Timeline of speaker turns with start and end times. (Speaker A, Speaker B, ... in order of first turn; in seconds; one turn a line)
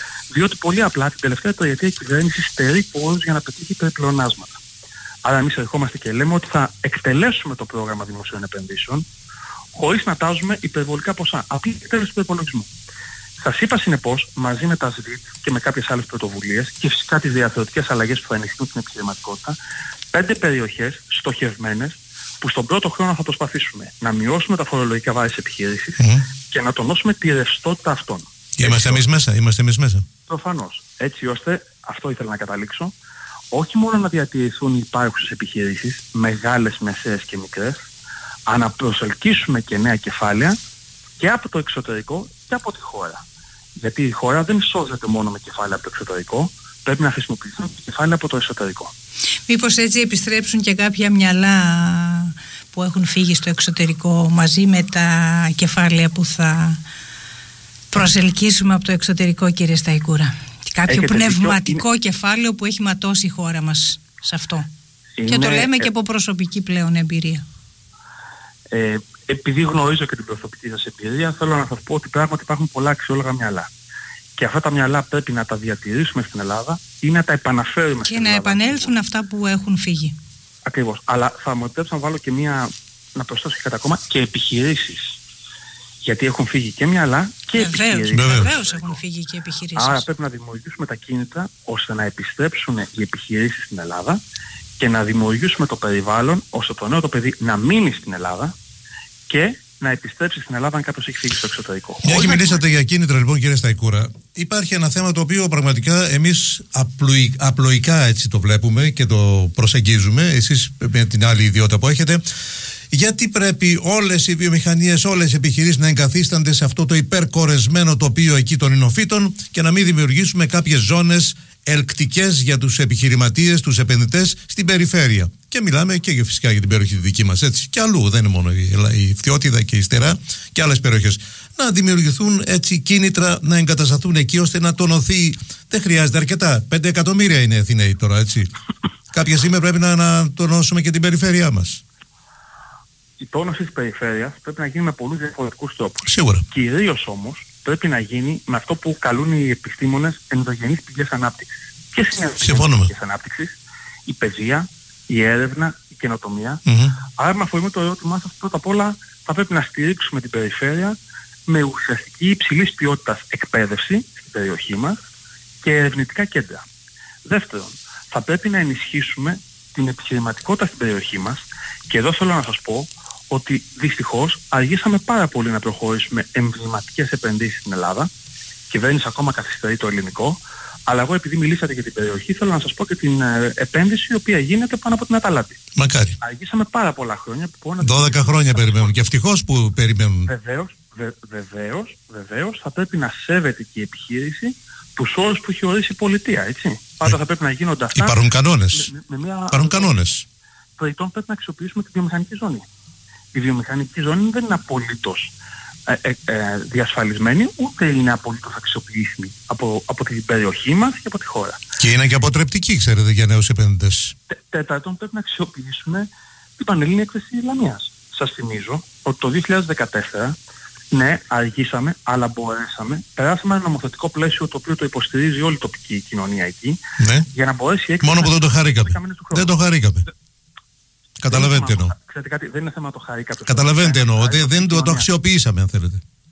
Speaker A: 0.3-4.6
Speaker A: 5.2-9.1
Speaker A: 9.7-12.7
Speaker A: 13.4-19.6
Speaker A: 20.1-29.0
Speaker B: 26.0-26.2
Speaker B: 28.6-30.1
Speaker A: 30.3-32.9
Speaker A: 33.5-37.8
Speaker A: 38.5-40.6
Speaker A: 41.2-43.2
Speaker A: 43.8-48.9
Speaker C: 49.5-56.8
Speaker C: 57.9-64.7
Speaker A: 60.9-61.8
Speaker A: 65.2-65.9
Speaker C: 65.3-67.4
Speaker A: 68.7-73.7
Speaker A: 74.4-78.9
Speaker C: 78.1-80.2
Speaker A: 80.7-85.2
Speaker A: 86.0-89.0
Speaker C: 87.6-90.1
Speaker B: 88.1-88.5
Speaker A: 89.8-94.2
Speaker A: 94.8-98.5
Speaker A: 99.3-102.6
Speaker B: 102.0-112.2
Speaker B: 112.9-138.5
Speaker B: 139.1-141.8
Speaker A: 143.2-156.6
Speaker B: 146.1-146.5
Speaker B: 152.4-152.9
Speaker B: 156.7-157.0
Speaker A: 157.2-160.9
Speaker A: 161.5-165.0
Speaker A: 165.6-166.6
Speaker A: 167.2-178.1
Speaker A: 178.7-185.6
Speaker B: 185.8-186.2
Speaker A: 186.2-188.9
Speaker B: 187.8-190.3
Speaker A: 190.3-198.2
Speaker B: 197.9-198.9
Speaker A: 198.7-199.9
Speaker B: 199.5-200.3
Speaker A: 200.8-202.6
Speaker A: 203.3-205.3
Speaker A: 205.9-211.6
Speaker B: 211.8-214.1
Speaker A: 214.3-220.4
Speaker A: 220.9-226.8
Speaker B: 227.0-227.3
Speaker A: 227.3-229.5
Speaker B: 228.0-230.1
Speaker B: 231.2-231.9
Speaker A: 231.3-235.1
Speaker B: 233.5-236.0